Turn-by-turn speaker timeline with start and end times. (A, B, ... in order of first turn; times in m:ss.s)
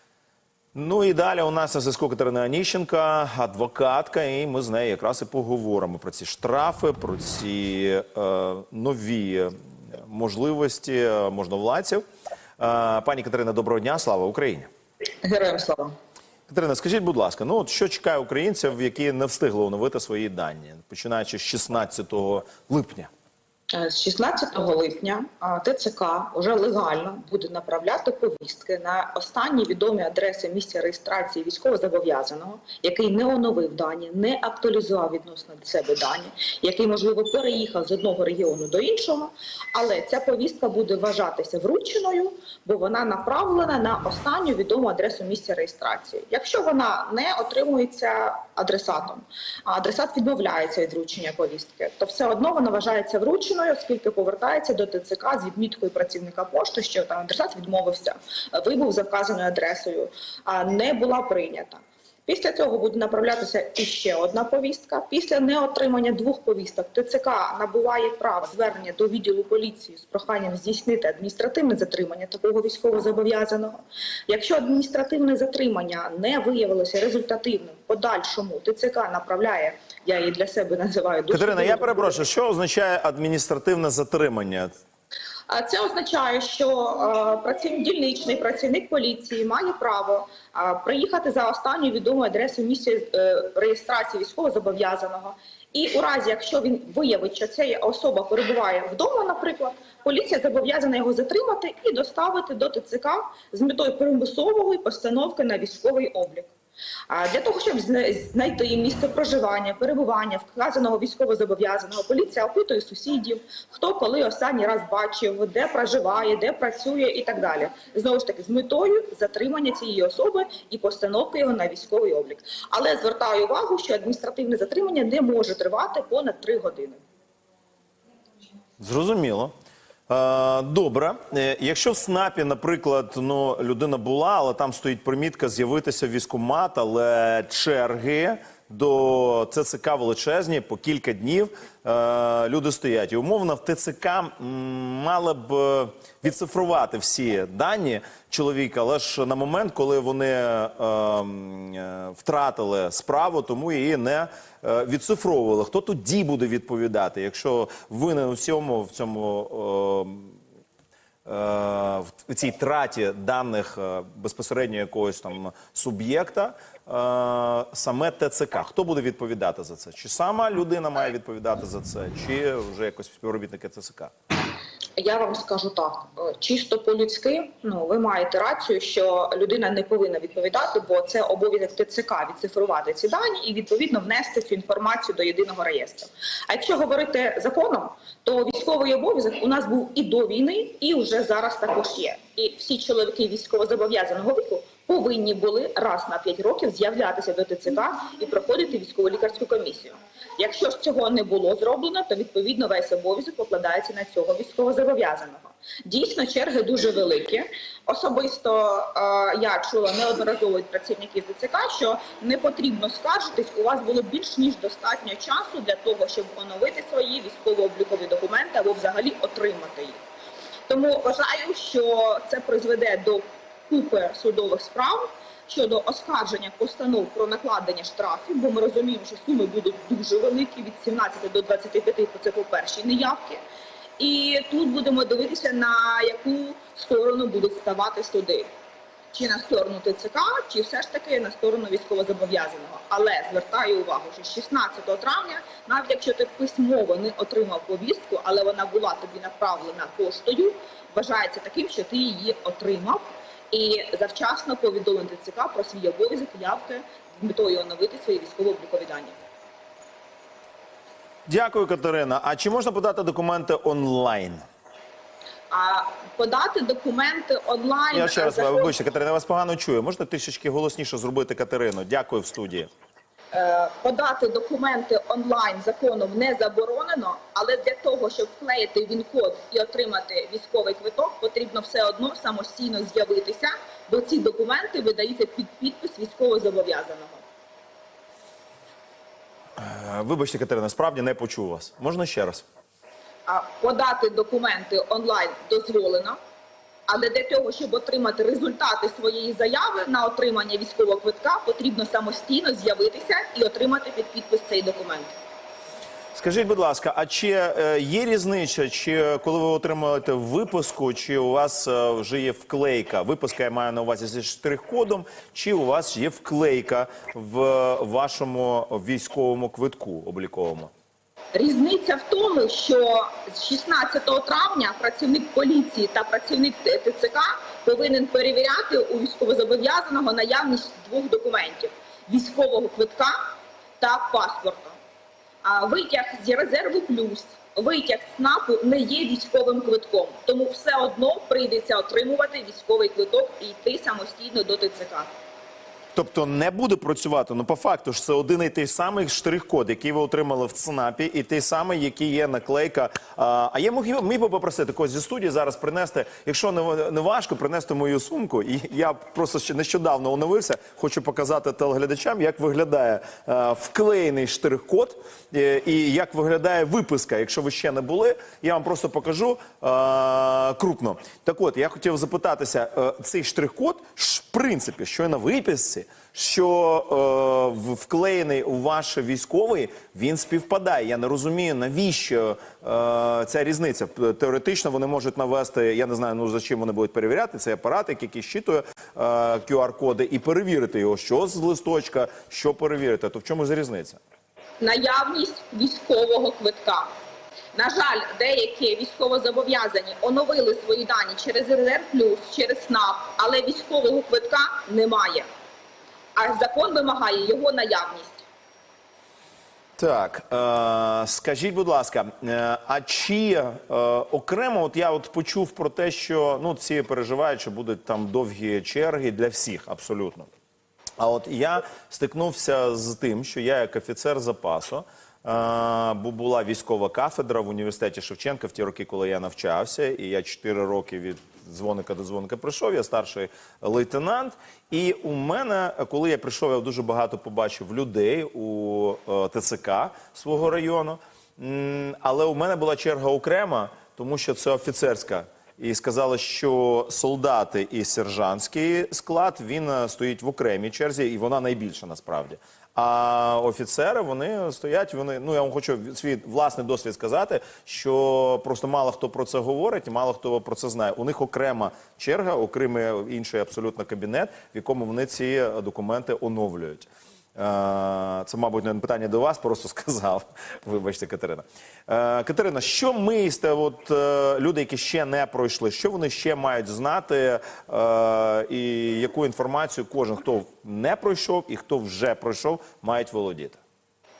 0:00.7-0:12.0 A
0:12.6-0:14.7 A
0:15.2-0:15.9 B
0:16.5-0:23.1 A
0:23.7-1:22.2 B
1:21.3-1:24.7 A
1:25.5-1:46.5 B
1:47.1-2:07.0 B
2:08.8-2:09.5 A
2:10.1-2:40.3 A
2:41.2-2:54.1 A
2:55.0-3:40.0 B
3:40.7-3:53.4 B
3:54.0-3:58.5 B
3:59.1-4:19.2 B
4:21.3-4:24.4 A
4:25.5-4:28.7 B
4:27.9-4:32.7 A
4:33.3-4:47.2 B
4:49.6-4:52.4 A
4:53.2-4:56.2 B
4:56.9-5:05.1 B
5:06.1-5:20.7 A
5:21.3-5:34.8 B
5:35.4-5:45.1 B
5:45.9-6:34.0 A
6:34.6-6:36.9 B
6:37.5-6:45.3 B
6:46.2-6:48.2 B
6:49.8-7:00.3 A
7:01.0-8:03.6 A